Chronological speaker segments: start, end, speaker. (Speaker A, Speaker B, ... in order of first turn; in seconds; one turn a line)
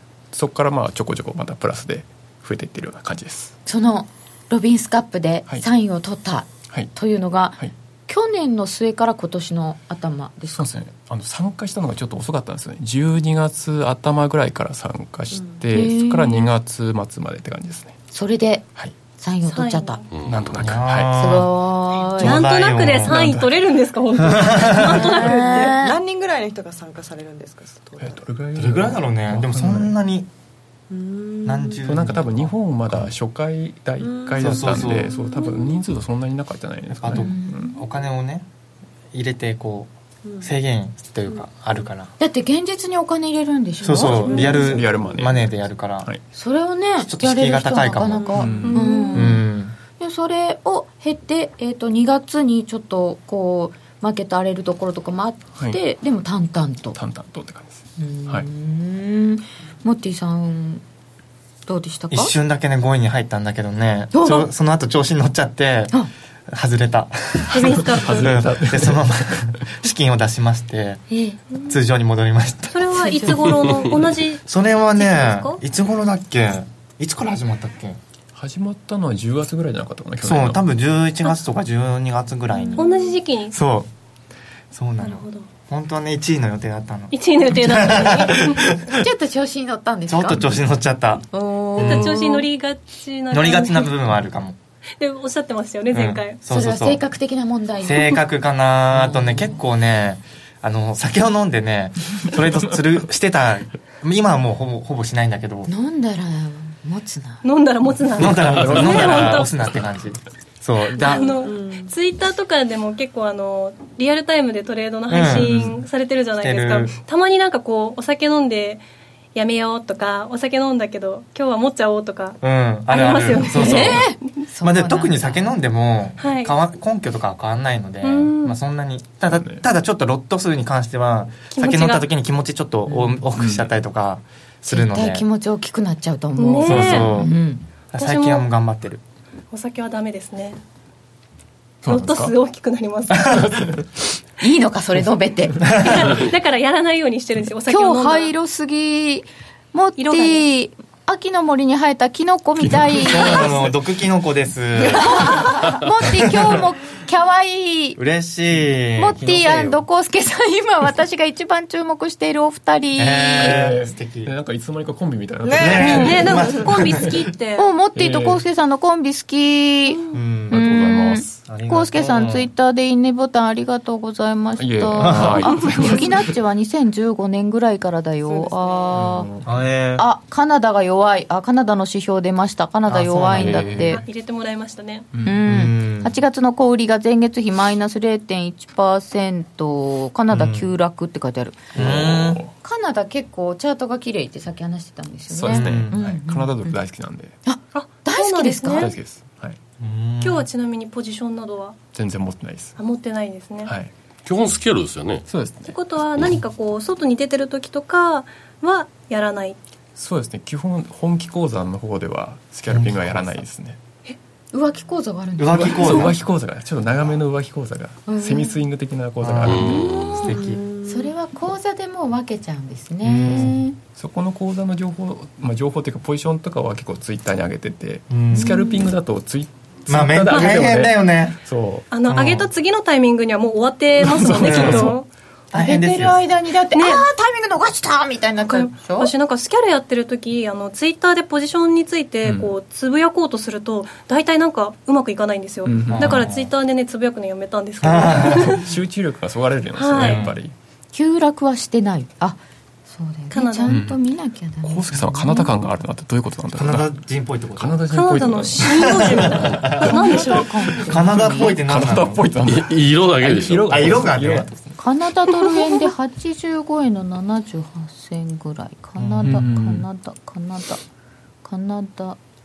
Speaker A: 0.3-3.5
Speaker B: 3.6-10.7
Speaker A: 10.5-17.9
Speaker B: 15.7-16.5
Speaker B: 18.1-18.6
Speaker B: 19.2-20.0
Speaker C: 19.4-20.1
Speaker D: 20.1-20.6
Speaker A: 20.2-21.3
Speaker E: 20.6-21.5
Speaker B: 21.1-22.3
Speaker C: 22.2-25.7
Speaker E: 22.2-23.2
Speaker A: 23.1-23.5
Speaker E: 24.2-25.0
Speaker B: 24.9-25.9
Speaker F: 25.0-28.2
Speaker A: 28.0-29.9
Speaker E: 28.6-30.3
Speaker F: 30.9-31.8
Speaker E: 31.4-33.1
Speaker A: 31.8-37.8
Speaker F: 34.0-35.8
Speaker E: 34.4-35.2
Speaker E: 36.9-38.5
Speaker B: 37.1-37.6
Speaker F: 37.7-38.0
Speaker E: 39.1-42.1
Speaker F: 40.3-40.5
Speaker B: 42.2-44.6
Speaker E: 43.8-46.1
Speaker F: 44.0-45.0
Speaker A: 44.6-46.2
Speaker B: 46.3-49.4
Speaker E: 47.0-48.6
Speaker A: 48.3-48.8
Speaker C: 48.6-49.4
Speaker E: 49.1-49.7
Speaker B: 50.0-57.0
Speaker A: 56.9-58.5
Speaker B: 58.0-60.8
Speaker B: 61.7-62.3
Speaker E: 62.1-65.9
Speaker B: 64.1-64.5
Speaker E: 66.5-71.0
Speaker C: 67.5-68.4
Speaker A: 67.5-69.5
Speaker B: 71.1-71.4
Speaker E: 71.6-73.3
Speaker C: 72.7-75.6
Speaker E: 73.9-78.0
Speaker A: 78.3-80.6
Speaker E: 80.2-82.9
Speaker F: 82.5-83.0
Speaker C: 82.8-83.5
Speaker E: 83.5-83.9
Speaker E: 84.7-89.0
Speaker C: 85.0-85.5
Speaker C: 87.1-88.6
Speaker B: 89.0-90.4
Speaker E: 90.1-92.1
Speaker B: 91.3-92.5
Speaker C: 91.8-93.9
Speaker E: 93.3-94.6
Speaker C: 95.0-96.4
Speaker E: 95.9-97.0
Speaker B: 96.5-98.2
Speaker E: 97.8-105.7
Speaker B: 98.9-99.6
Speaker B: 105.7-107.4
Speaker C: 107.4-109.5
Speaker E: 108.2-111.3
Speaker A: 108.4-109.5
Speaker F: 111.0-111.9
Speaker C: 111.0-124.3
Speaker E: 115.1-115.8
Speaker E: 116.4-117.0
Speaker E: 122.4-124.0
Speaker B: 123.4-125.5
Speaker E: 124.6-135.2
Speaker C: 126.2-126.5
Speaker C: 128.0-128.6
Speaker A: 129.3-129.6
Speaker C: 131.5-132.1
Speaker B: 132.9-133.2
Speaker A: 133.3-133.7
Speaker B: 134.7-137.6
Speaker C: 136.3-137.1
Speaker A: 136.5-137.1
Speaker E: 136.6-137.3
Speaker E: 137.9-139.0
Speaker C: 137.9-138.5
Speaker C: 139.5-140.6
Speaker A: 141.8-142.3
Speaker C: 141.8-143.6
Speaker E: 143.2-143.5
Speaker A: 143.4-143.8
Speaker B: 144.4-145.7
Speaker C: 145.7-148.3
Speaker E: 145.8-146.2
Speaker B: 147.7-153.6
Speaker C: 150.0-150.5
Speaker A: 152.6-153.8
Speaker E: 152.9-155.5
Speaker B: 154.8-158.0
Speaker E: 156.0-156.6
Speaker E: 158.0-159.8
Speaker B: 158.9-163.6
Speaker E: 163.0-164.3
Speaker A: 163.4-167.1
Speaker F: 165.4-166.6
Speaker E: 165.5-167.2
Speaker C: 165.8-167.7
Speaker B: 167.6-179.3
Speaker A: 167.9-168.4
Speaker C: 169.9-170.2
Speaker E: 170.1-170.6
Speaker A: 170.5-171.4
Speaker E: 171.4-172.5
Speaker A: 174.6-176.3
Speaker E: 175.0-175.5
Speaker F: 178.2-179.4
Speaker A: 178.9-179.5
Speaker E: 179.4-180.0
Speaker B: 179.9-184.0
Speaker E: 182.9-183.9
Speaker A: 183.3-184.0
Speaker C: 183.9-185.1
Speaker B: 185.2-191.7
Speaker E: 185.4-186.2
Speaker E: 190.3-190.7
Speaker E: 191.7-192.4
Speaker A: 191.7-192.5
Speaker B: 192.6-196.8
Speaker A: 195.3-197.3
Speaker E: 195.5-195.9
Speaker B: 197.4-198.9
Speaker C: 197.7-198.9
Speaker A: 198.7-199.6
Speaker E: 199.8-200.5
Speaker C: 200.2-201.8
Speaker A: 201.9-202.8
Speaker C: 202.8-203.7
Speaker A: 203.7-203.9
Speaker D: 204.2-205.3
Speaker A: 205.3-205.7
Speaker C: 205.7-209.6
Speaker A: 209.9-213.8
Speaker E: 212.7-213.4
Speaker B: 214.5-216.1
Speaker E: 215.4-216.2
Speaker A: 215.5-220.2
Speaker B: 218.1-218.6
Speaker E: 219.2-220.6
Speaker D: 219.4-220.2
Speaker F: 220.1-221.1
Speaker B: 220.8-223.8
Speaker E: 223.0-223.6
Speaker A: 223.9-231.8
Speaker E: 228.1-228.6
Speaker E: 229.9-231.4
Speaker C: 230.3-230.6
Speaker C: 231.9-235.1
Speaker E: 232.1-232.5
Speaker A: 234.0-235.0
Speaker E: 234.3-234.9
Speaker E: 235.5-236.2
Speaker B: 235.5-239.1
Speaker C: 236.7-237.1
Speaker C: 238.4-248.6
Speaker A: 242.2-242.5
Speaker A: 245.6-246.2
Speaker E: 245.9-246.5
Speaker E: 247.8-248.6
Speaker A: 248.2-250.5
Speaker C: 249.7-250.2
Speaker E: 250.0-250.3
Speaker B: 250.9-255.5
Speaker C: 253.3-253.8
Speaker A: 253.7-254.0
Speaker A: 254.6-256.9
Speaker E: 256.5-257.8
Speaker A: 257.5-264.8
Speaker C: 257.9-260.5
Speaker E: 258.6-259.9
Speaker B: 259.9-261.6
Speaker E: 260.7-262.2
Speaker D: 262.4-264.0
Speaker E: 263.7-264.5
Speaker B: 264.8-270.8
Speaker E: 269.0-269.5
Speaker A: 269.2-269.8
Speaker B: 271.4-272.2